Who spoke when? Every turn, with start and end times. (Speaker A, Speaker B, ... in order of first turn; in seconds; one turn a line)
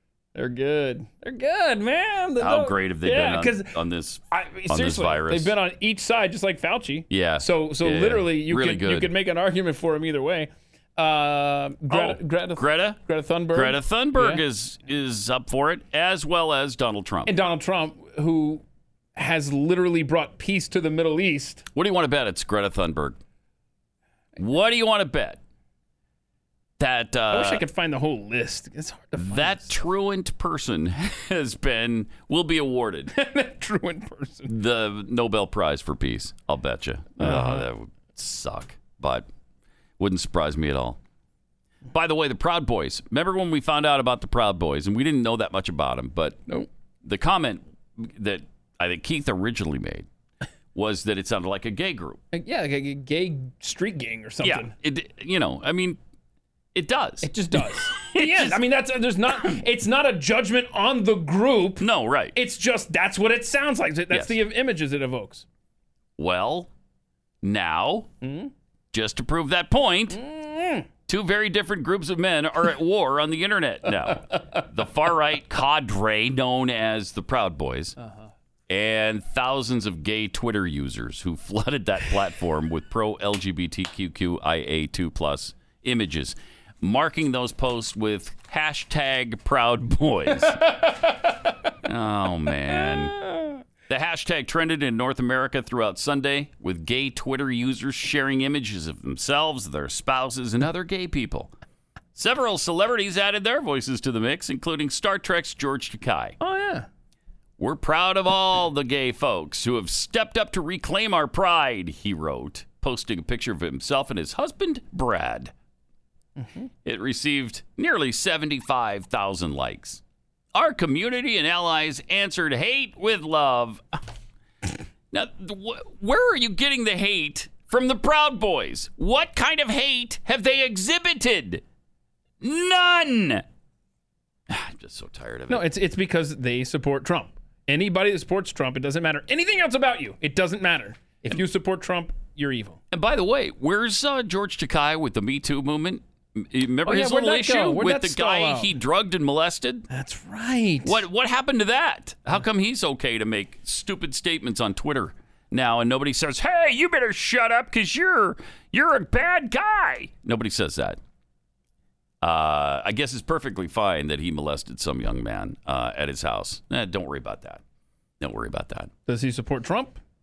Speaker A: 0.3-3.8
Speaker B: 2.4-5.5
Speaker A: 4.3-14.4
Speaker B: 7.1-9.1
Speaker B: 11.9-13.0
Speaker B: 13.5-17.3
Speaker A: 17.3-18.6
Speaker A: 19.2-21.7
Speaker B: 21.7-23.2
Speaker B: 24.4-25.4
Speaker B: 26.8-27.6
Speaker A: 27.3-29.8
Speaker B: 29.2-33.1
Speaker A: 33.1-34.5
Speaker B: 34.5-39.3
Speaker A: 37.2-37.7
Speaker B: 40.0-41.0
Speaker B: 41.9-46.4
Speaker B: 47.0-50.1
Speaker B: 50.8-52.2
Speaker A: 52.3-54.7
Speaker B: 54.4-56.0
Speaker B: 56.8-58.6
Speaker A: 57.2-65.5
Speaker B: 61.8-62.3
Speaker B: 64.1-64.4
Speaker B: 66.2-66.7
Speaker B: 67.4-68.1
Speaker A: 68.2-68.5
Speaker B: 68.9-70.2
Speaker A: 70.1-70.9
Speaker B: 71.1-78.0
Speaker A: 74.1-74.4
Speaker A: 78.0-78.3
Speaker B: 78.7-90.8
Speaker A: 90.4-91.3
Speaker B: 91.8-93.2
Speaker A: 92.8-93.6
Speaker B: 93.9-101.5
Speaker B: 102.2-106.4
Speaker A: 106.4-106.9
Speaker B: 107.6-115.5
Speaker A: 116.4-116.7
Speaker B: 116.8-120.0
Speaker B: 120.5-123.8
Speaker B: 125.1-131.6
Speaker B: 132.4-133.4
Speaker B: 134.5-135.7
Speaker A: 135.5-142.8
Speaker B: 142.9-149.9
Speaker A: 146.8-148.8
Speaker A: 149.9-151.0
Speaker B: 150.8-161.0
Speaker B: 162.2-167.6
Speaker B: 168.2-168.9
Speaker A: 169.1-170.0